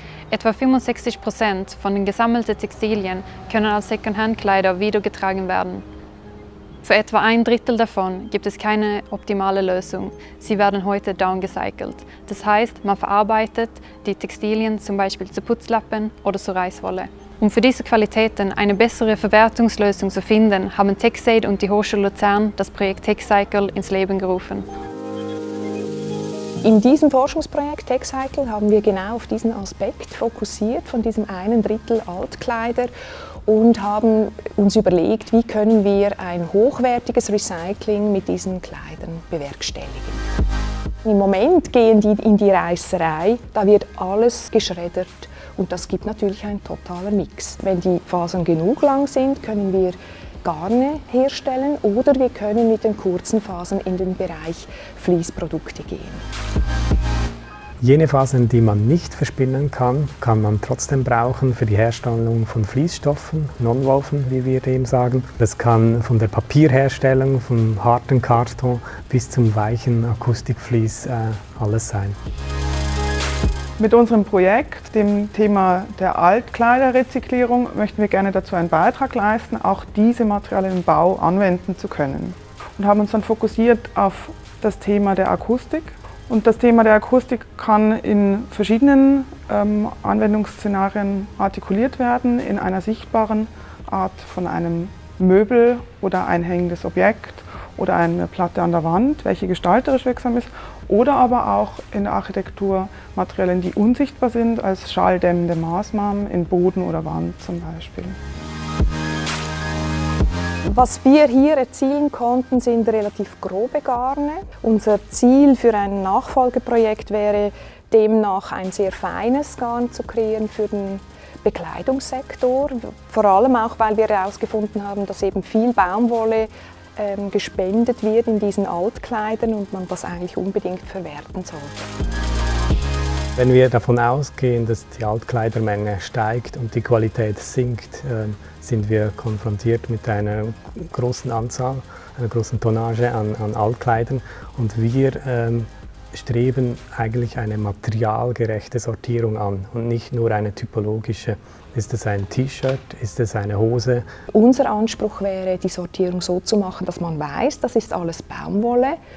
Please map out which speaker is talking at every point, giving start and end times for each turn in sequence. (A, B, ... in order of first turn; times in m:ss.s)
0:00.3-0:05.8 A
0:06.8-0:24.6 A
0:26.6-0:32.9 B
0:33.4-0:40.2 B
0:41.0-0:56.2 B
0:57.8-1:12.2 C
1:13.8-1:48.2 D
1:50.7-2:11.8 B
2:13.4-2:34.0 C
2:34.3-2:39.0 B